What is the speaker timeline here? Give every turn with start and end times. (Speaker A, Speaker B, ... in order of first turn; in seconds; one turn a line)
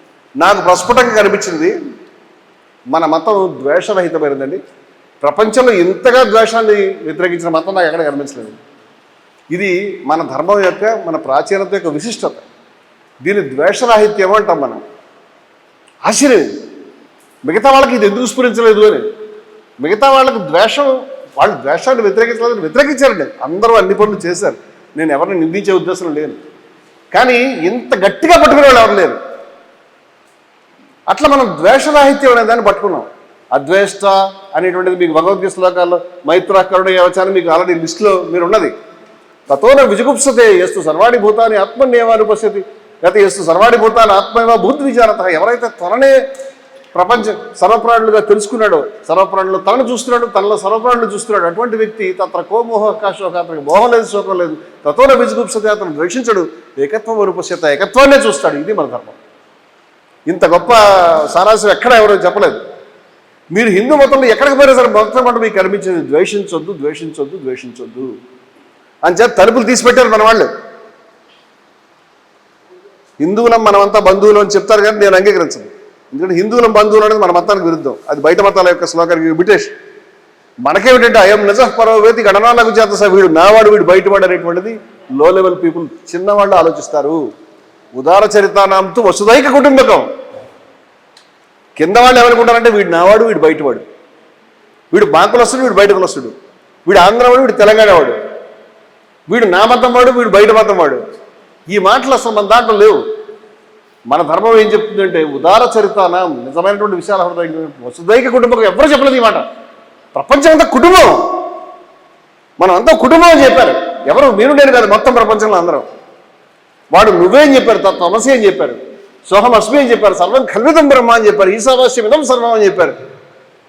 Speaker A: 0.4-1.8
Speaker A: 2.9-4.6
Speaker A: 5.2-8.6
Speaker A: 9.5-12.4
Speaker A: 13.2-14.8
Speaker A: 16.1-16.6
Speaker A: 17.4-19.1
Speaker A: 19.8-26.4
Speaker A: 27.1-29.2
Speaker A: 31.1-38.7
Speaker A: 39.5-46.2
Speaker A: 46.9-59.2
Speaker A: 60.3-62.6
Speaker A: 63.5-68.1
Speaker A: 69.0-70.5
Speaker A: 73.2-79.7
Speaker A: 80.6-87.3
Speaker A: 88.0-90.1
Speaker A: 91.8-93.8
Speaker A: 94.9-98.2
Speaker A: 99.3-101.0
Speaker A: 101.7-103.0
Speaker A: 104.1-109.5
Speaker A: 110.1-111.3
Speaker A: 112.6-115.9
Speaker A: 116.9-123.0